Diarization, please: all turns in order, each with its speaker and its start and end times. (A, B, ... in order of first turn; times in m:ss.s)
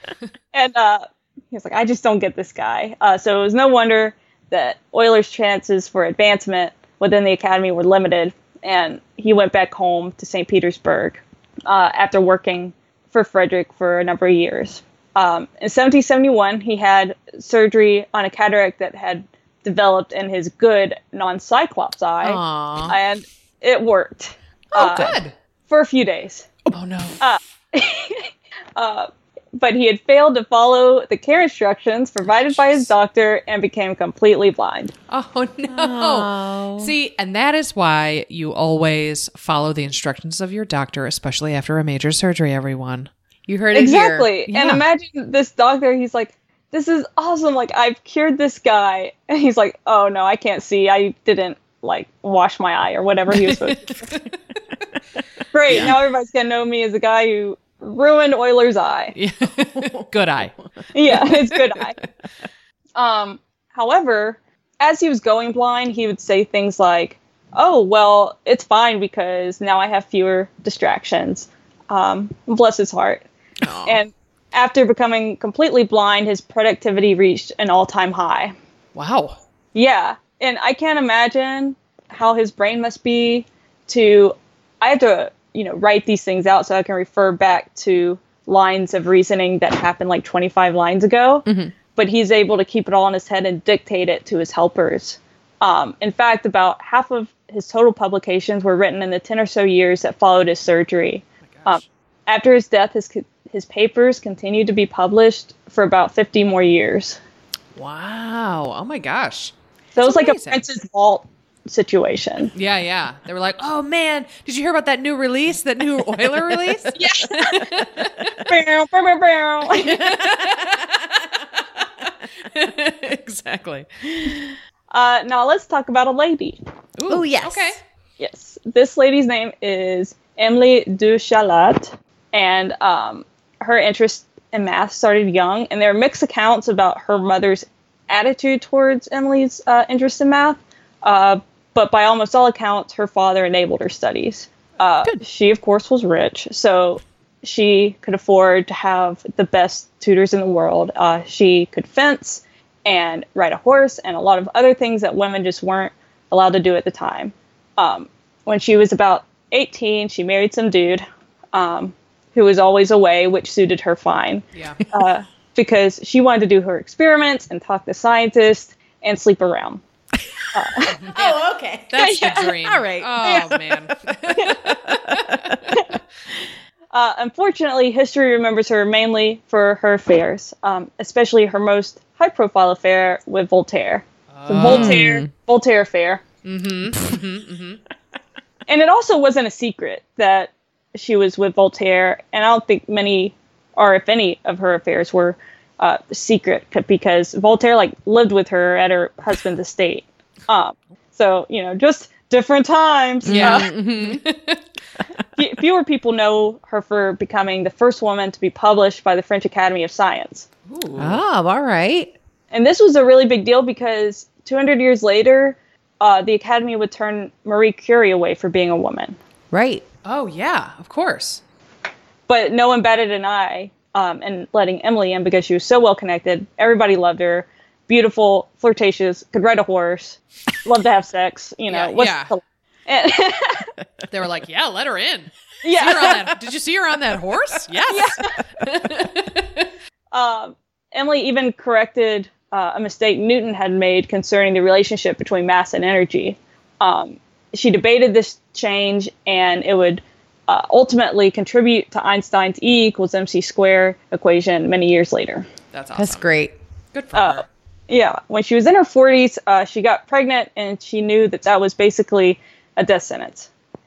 0:00.5-0:26.5 A
0:22.2-0:22.9 B
0:24.7-0:25.3 B
0:26.7-0:27.2 B
0:27.2-0:34.9 A
0:32.5-0:32.9 B
0:35.1-0:43.1 B
0:35.7-0:36.9 C
0:43.5-0:44.3 C
0:43.7-0:54.1 A
0:44.5-0:44.8 B
0:53.3-0:54.3 B
0:55.5-0:59.1 A
0:59.1-1:00.6 B
0:59.7-1:00.0 C
1:00.9-1:02.0 A
1:03.0-1:13.2 A
1:13.6-1:14.0 B
1:13.8-1:18.5 A
1:18.9-1:19.4 B
1:19.7-1:47.2 A
1:31.4-1:31.7 C
1:47.7-1:50.6 B
1:50.0-1:52.5 A
1:52.5-1:58.3 B
1:56.9-1:57.6 A
1:58.4-2:00.1 A
1:59.8-2:01.6 B
2:02.5-2:04.4 B
2:04.9-2:06.6 A
2:07.0-2:07.8 B
2:07.1-2:07.8 C
2:08.2-2:49.8 A
2:44.5-2:44.8 B
2:50.5-2:51.0 A
2:50.9-2:55.5 B
2:51.1-2:55.6 C
2:52.0-2:52.5 A
2:56.9-3:06.2 A
3:04.3-3:05.1 B
3:04.6-3:05.3 C
3:06.4-3:07.8 B
3:08.7-3:23.7 A
3:23.2-3:24.2 C
3:23.2-3:24.6 B
3:25.4-3:30.5 A
3:30.7-3:31.2 B
3:31.0-3:32.1 C
3:32.5-3:39.2 A
3:39.5-3:39.8 C
3:40.0-3:41.4 B
3:42.3-3:53.7 A
3:51.7-3:52.3 B
3:54.1-3:59.7 B
3:55.6-3:56.2 A
3:57.9-3:58.4 A
4:00.1-4:15.4 A
4:15.7-4:16.3 B
4:15.9-4:16.5 C
4:16.9-4:17.4 B
4:17.1-4:23.5 A